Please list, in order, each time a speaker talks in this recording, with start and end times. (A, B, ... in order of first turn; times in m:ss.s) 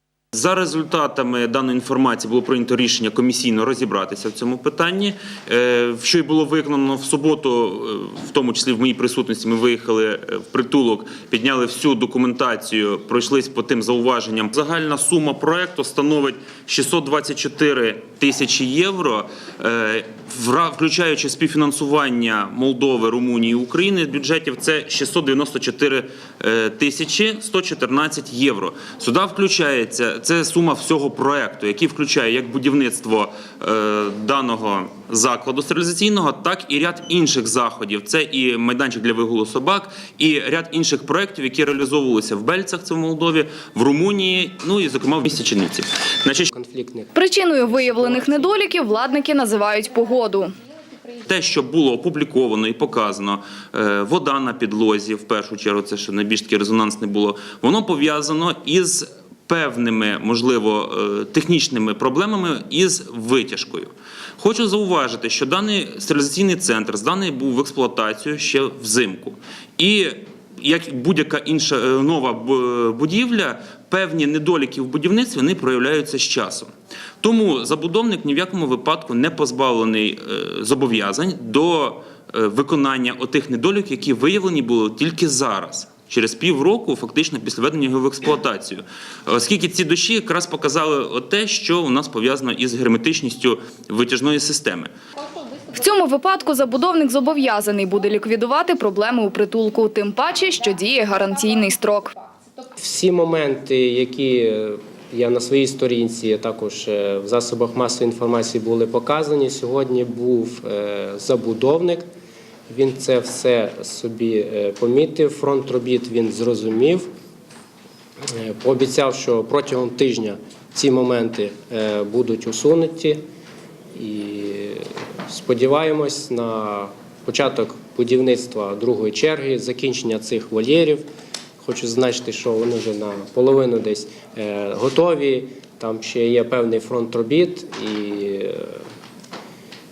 0:00.3-0:46.5 A
0:46.5-0:47.1 B
0:47.2-0:50.5 C
0:47.7-0:48.4 B
0:51.3-1:16.7 A
1:17.2-1:34.9 A
1:35.7-1:42.2 C
1:42.8-1:52.1 B
1:52.7-1:57.1 B
1:58.4-2:03.3 B
2:04.0-2:11.1 B
2:11.6-2:18.8 B